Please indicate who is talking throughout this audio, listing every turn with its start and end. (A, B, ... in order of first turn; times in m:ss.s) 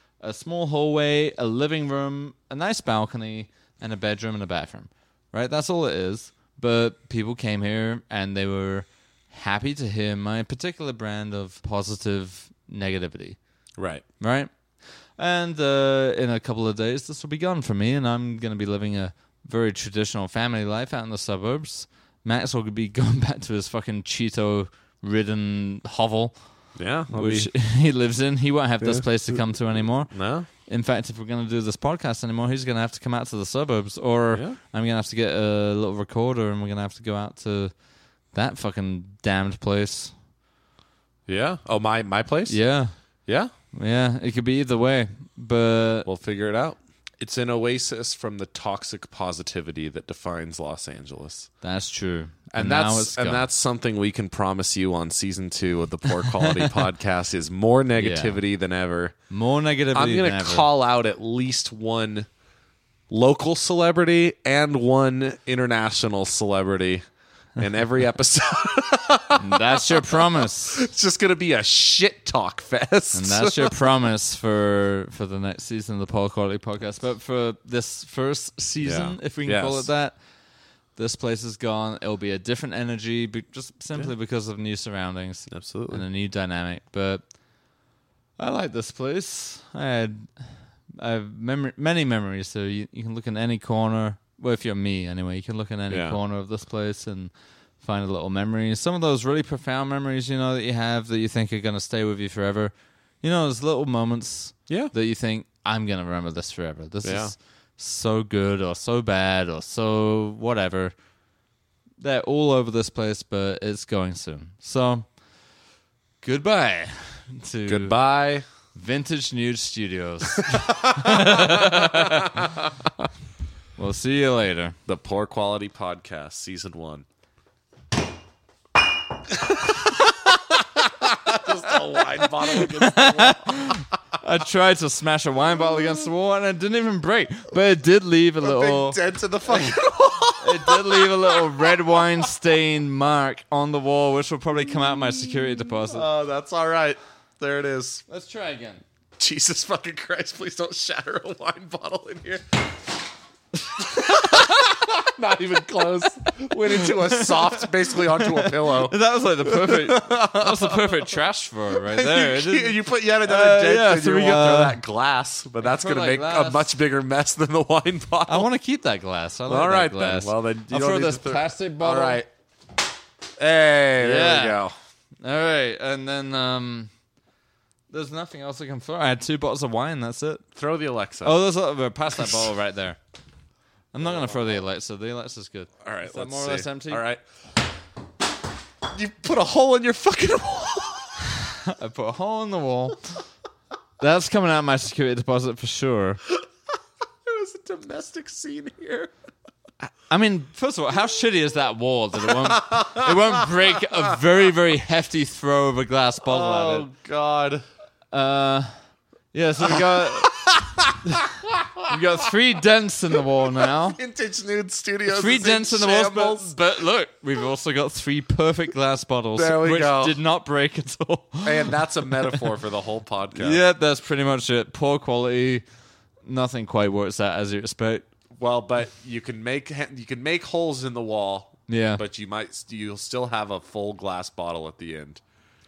0:00.2-0:13.4 A
0:13.8-0:14.0 B
0:14.2-0:14.5 A
0:15.2-0:26.4 A
0:26.8-0:27.5 B
0:27.1-0:37.7 A
0:28.8-0:29.1 B
0:30.1-0:30.5 B
0:34.3-0:34.6 B
0:38.3-0:40.1 A
0:41.3-0:42.6 B
0:42.5-0:42.9 A
0:43.3-0:43.5 B
0:43.7-0:46.1 A
0:46.0-0:51.5 B
0:51.6-0:53.4 A
0:52.5-0:59.1 B
0:56.3-0:56.6 A
0:58.0-0:58.4 A
0:59.3-1:00.6 A
0:59.9-1:02.3 B
1:03.1-1:07.0 B
1:07.6-1:13.9 B
1:09.4-1:10.8 A
1:13.1-1:20.2 A
1:18.8-1:19.9 B
1:21.0-1:27.2 A
1:25.5-1:26.0 B
1:28.4-1:50.9 A
1:35.9-1:36.2 B
1:47.0-1:47.3 B
1:52.0-1:55.1 A
1:56.2-1:58.0 A
1:57.7-1:58.4 B
1:58.7-2:02.4 A
2:00.4-2:03.0 B
2:03.8-2:04.8 A
2:04.9-2:07.0 B
2:09.3-2:13.7 B
2:12.4-2:19.8 A
2:18.4-2:22.2 B
2:20.4-2:26.1 A
2:25.9-2:28.0 B
2:28.1-2:28.8 A
2:29.2-2:32.7 B
2:33.8-2:41.1 B
2:34.0-2:34.4 A
2:36.5-2:44.8 A
2:41.8-2:48.5 B
2:45.6-2:46.7 A
2:48.3-2:52.2 A
2:49.5-2:52.3 B
2:53.4-2:54.8 B
2:54.0-2:54.6 A
2:55.2-2:56.9 A
2:57.9-3:00.4 A
3:00.6-3:01.4 B
3:01.2-3:03.0 A
3:03.9-3:07.0 A
3:05.8-3:07.2 B
3:08.9-3:11.3 B
3:11.3-3:13.2 A
3:14.0-3:16.2 A
3:17.2-3:19.1 B
3:19.9-3:26.9 A
3:22.3-3:23.7 B
3:26.2-3:27.6 B
3:28.1-3:28.8 A
3:29.3-3:31.2 A
3:30.2-3:31.9 B
3:31.8-3:34.0 A
3:33.6-3:36.6 B
3:35.1-3:42.4 A
3:39.4-3:40.2 B
3:41.4-3:43.6 B
3:43.4-3:45.6 A
3:46.2-3:48.1 A
3:48.4-3:55.2 B
3:51.7-3:52.0 A